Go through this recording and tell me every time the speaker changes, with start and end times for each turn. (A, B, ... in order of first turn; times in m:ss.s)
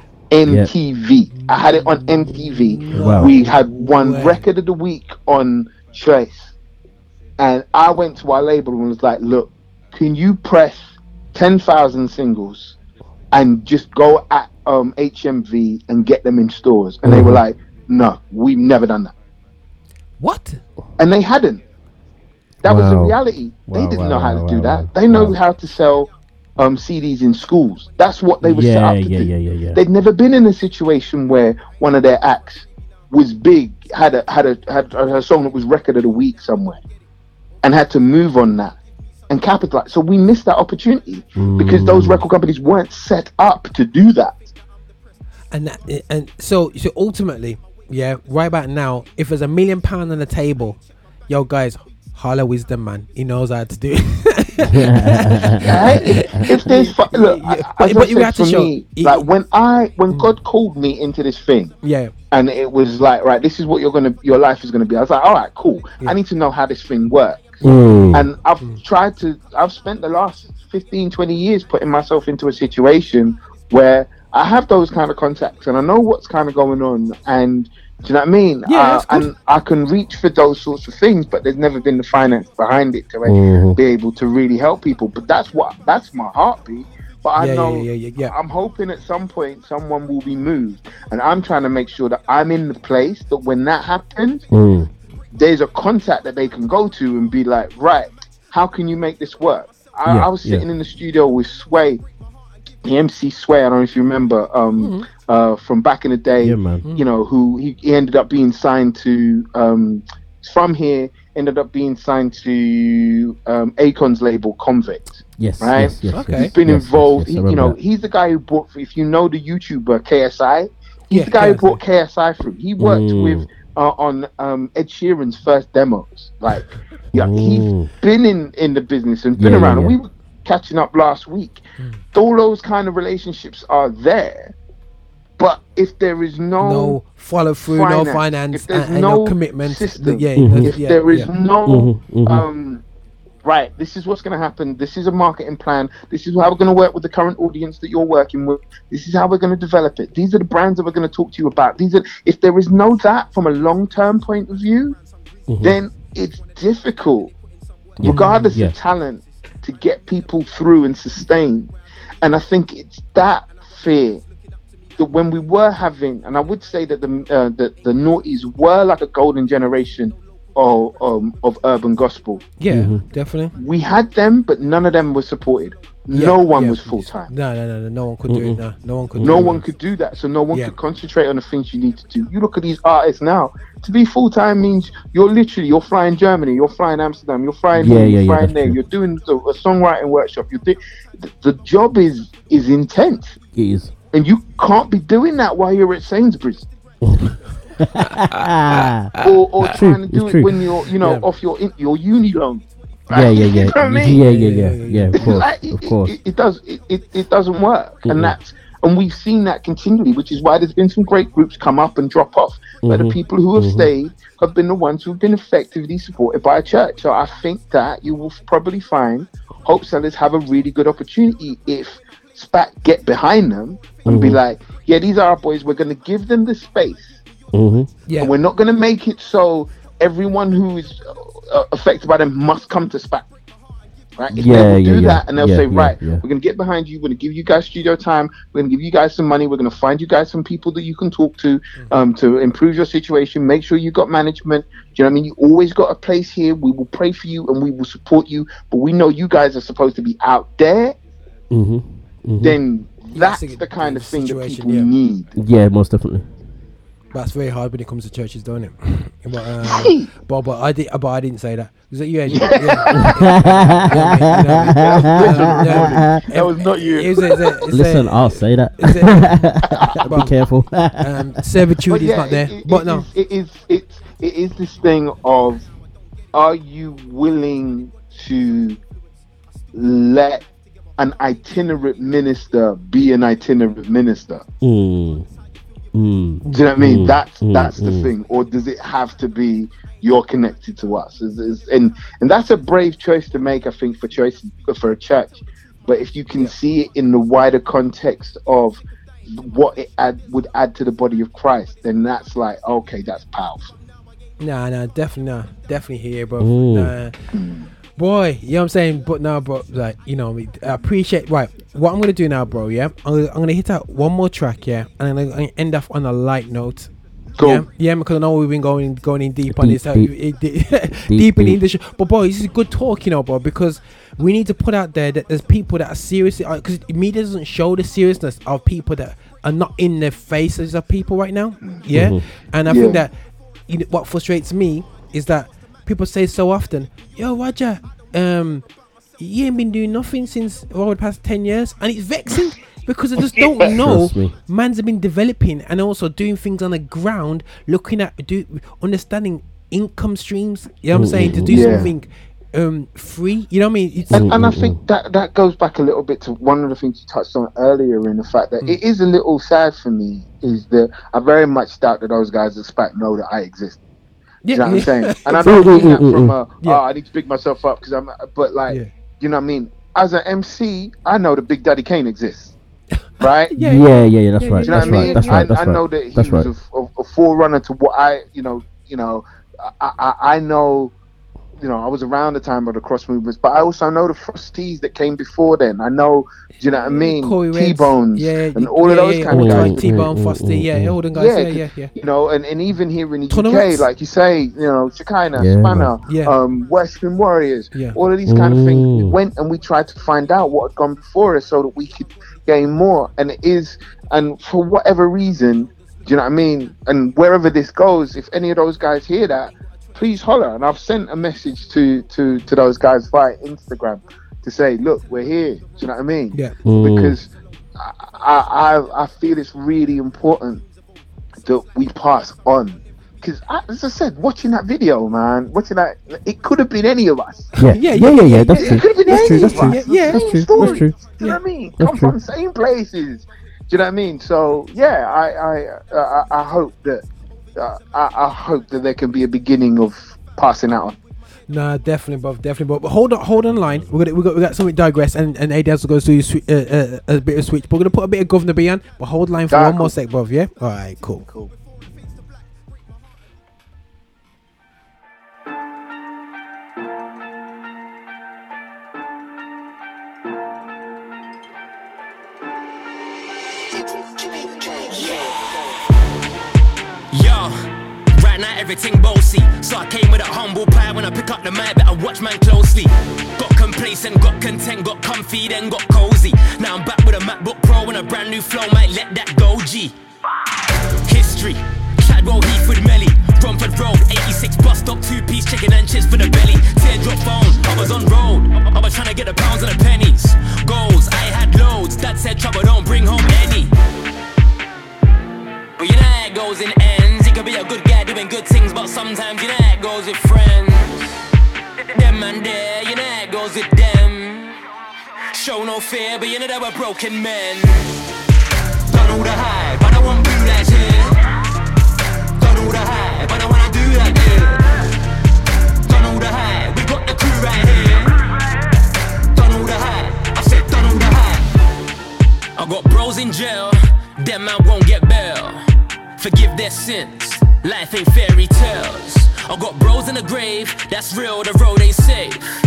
0:00.3-0:06.5 A
0:00.5-0:00.7 B
0:01.3-0:04.5 C
0:02.9-0:03.3 B
0:07.4-0:12.8 A
0:13.3-0:19.1 A
0:17.0-0:17.4 B
0:20.2-0:20.6 C
0:21.0-0:21.6 A
0:22.6-0:36.8 A
0:22.6-0:25.4 B
0:28.4-0:29.8 B
0:37.6-0:38.8 A
0:39.3-0:44.5 A
0:41.4-0:42.2 B
0:45.5-0:59.3 C
0:54.6-0:56.4 B
0:55.6-1:01.7 A
1:00.1-1:00.4 C
1:01.8-1:02.1 C
1:02.3-1:07.6 A
1:07.6-1:08.3 B
1:07.6-1:08.8 C
1:08.1-1:34.4 A
1:18.7-1:19.3 C
1:23.2-1:23.8 B
1:27.4-1:28.3 C
1:34.5-1:34.9 B
1:35.3-1:42.0 A
1:40.0-1:40.7 B
1:42.8-2:11.6 A
1:44.8-1:45.1 C
1:46.4-1:46.9 B
1:46.8-1:47.1 C
1:55.4-1:57.8 B
1:56.1-1:56.5 C
2:01.1-2:01.8 C
2:02.8-2:03.5 B
2:07.1-2:07.9 B
2:09.4-2:10.0 B
2:12.1-2:14.6 A
2:15.4-2:17.0 A
2:16.6-2:21.3 C
2:17.6-2:22.8 A
2:20.4-2:20.7 B
2:21.6-2:22.5 B
2:23.4-2:35.0 A
2:35.5-2:35.8 B
2:35.6-2:37.3 A
2:38.0-2:38.8 B
2:38.0-2:44.2 A
2:38.0-2:38.5 C
2:45.0-2:52.5 A
2:52.6-2:53.6 C
2:52.7-2:53.0 B
2:53.6-2:57.3 A
2:56.1-2:59.6 C
2:58.3-2:58.6 B
2:59.2-3:13.4 A
3:07.7-3:08.8 B
3:13.5-3:13.9 B
3:14.1-3:16.7 A
3:17.8-3:20.6 B
3:19.2-3:24.2 A
3:21.0-3:21.3 C
3:23.1-3:26.2 B
3:24.0-3:25.3 C
3:25.1-3:47.2 A
3:28.0-3:28.4 B
3:32.8-3:33.9 B
3:44.0-3:44.4 B
3:47.5-3:47.9 B
3:48.1-3:48.4 C
3:48.2-3:53.3 A
3:54.2-4:11.0 A
3:54.3-3:56.2 B
4:11.5-4:12.6 B
4:12.4-4:15.3 A
4:13.1-4:14.9 C
4:15.4-4:16.3 B
4:17.1-4:30.4 C
4:19.6-4:20.1 A
4:22.3-4:23.1 A
4:22.9-4:26.2 B
4:24.6-4:27.6 A
4:27.7-4:31.3 B
4:31.0-4:33.1 C
4:31.9-4:35.7 A
4:36.3-4:38.8 A
4:39.7-4:40.4 A
4:41.0-4:44.4 A
4:44.6-4:45.3 B
4:45.9-4:48.1 B
4:46.5-5:03.7 A
5:04.4-5:07.2 C
5:06.4-5:06.9 B
5:07.3-5:07.7 A
5:08.0-5:33.1 C
5:17.4-5:17.6 A
5:19.5-5:20.1 B
5:21.1-5:21.6 B
5:31.9-5:32.3 B
5:32.7-5:33.0 A
5:33.7-5:38.7 C
5:39.2-5:54.3 C
5:43.4-5:43.7 A
5:43.8-5:44.4 B
5:50.9-5:51.9 B
5:51.4-5:51.9 A
5:54.1-5:54.8 B
5:54.1-6:03.8 A
6:04.4-6:05.4 C
6:04.5-6:12.6 A
6:05.4-6:06.4 B
6:13.2-6:13.6 A
6:13.5-6:15.5 C
6:13.6-6:16.5 B
6:14.6-6:20.9 A
6:21.6-6:30.0 A
6:26.7-6:31.9 C
6:29.3-6:31.0 B
6:31.1-7:00.6 A
6:33.3-6:33.9 C
6:35.4-6:35.9 B
6:36.0-6:36.4 C
6:37.7-6:38.0 C
6:38.3-6:39.2 B
6:56.6-6:57.2 B
7:01.4-7:17.0 A
7:07.6-7:11.0 B
7:07.6-7:11.4 C
7:11.8-7:12.2 B
7:17.6-7:21.0 A
7:21.5-7:31.3 C
7:23.5-7:23.9 B
7:29.5-7:29.9 A
7:31.3-7:31.5 A
7:44.7-7:45.3 D
7:47.1-7:59.9 D
8:01.0-8:13.7 D
8:15.8-8:21.0 D
8:21.9-8:24.6 D
8:25.4-8:27.9 D
8:28.9-8:31.2 D
8:32.4-8:34.6 D
8:35.9-8:38.2 D
8:39.3-8:41.5 D
8:42.6-8:45.6 D
8:46.2-8:52.4 D